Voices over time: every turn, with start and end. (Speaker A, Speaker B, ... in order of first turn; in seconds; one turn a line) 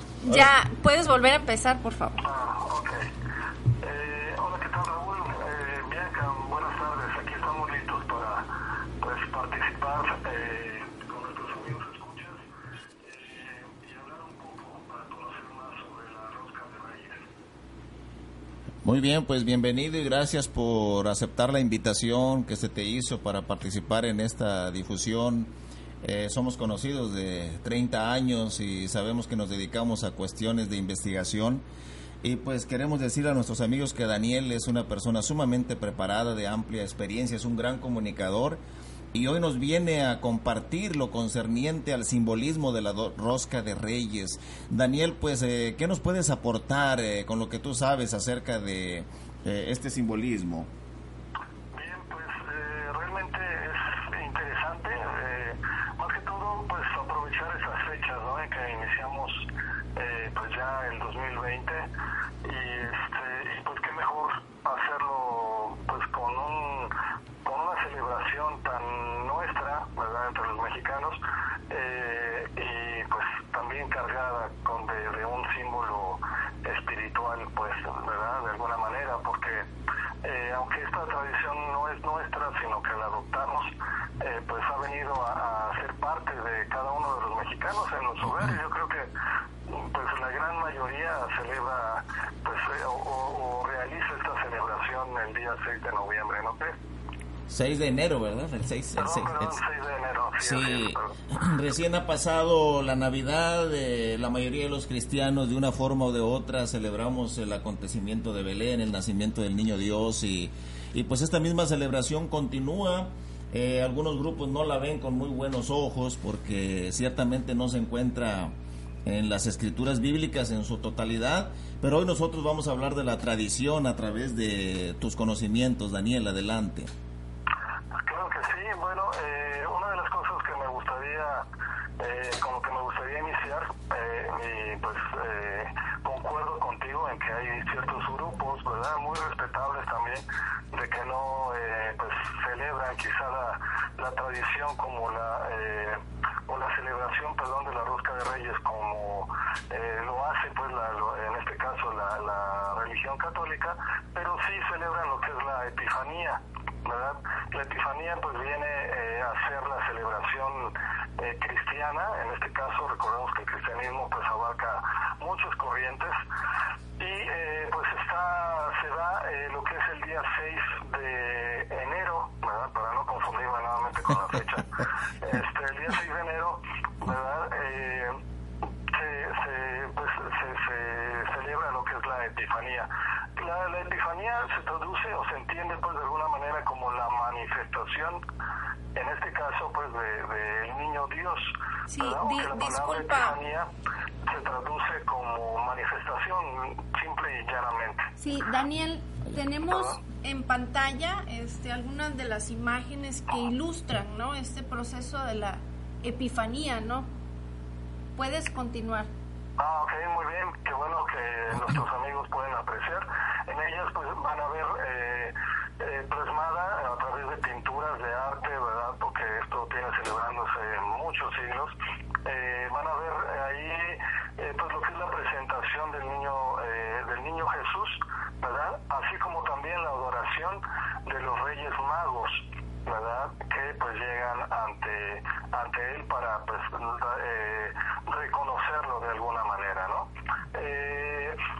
Speaker A: 0.2-2.2
Speaker B: 2.2-3.0
Speaker B: 3.8-12.4
Speaker B: 13.0-17.2
Speaker C: 18.8-31.6
Speaker C: 32.2-38.6
Speaker C: 39.1-50.7
Speaker B: 51.7-59.4
Speaker B: 60.0-61.9
Speaker B: 62.4-66.9
Speaker B: 67.4-79.7
Speaker B: 80.2-89.1
Speaker B: 89.7-96.8
Speaker C: 97.5-99.6
Speaker B: 99.0-101.1
Speaker C: 100.4-118.5
Speaker C: 119.0-126.9
Speaker B: 128.0-131.4
Speaker B: 132.0-166.2
Speaker B: 167.0-174.7
Speaker B: 175.2-178.2
Speaker B: 178.9-188.2
Speaker B: 188.9-193.7
Speaker A: 191.9-193.3
Speaker B: 194.3-198.1
Speaker A: 198.2-207.1
Speaker B: 199.7-200.0
Speaker A: 208.2-209.1
Speaker B: 209.6-221.7
Speaker B: 222.2-241.4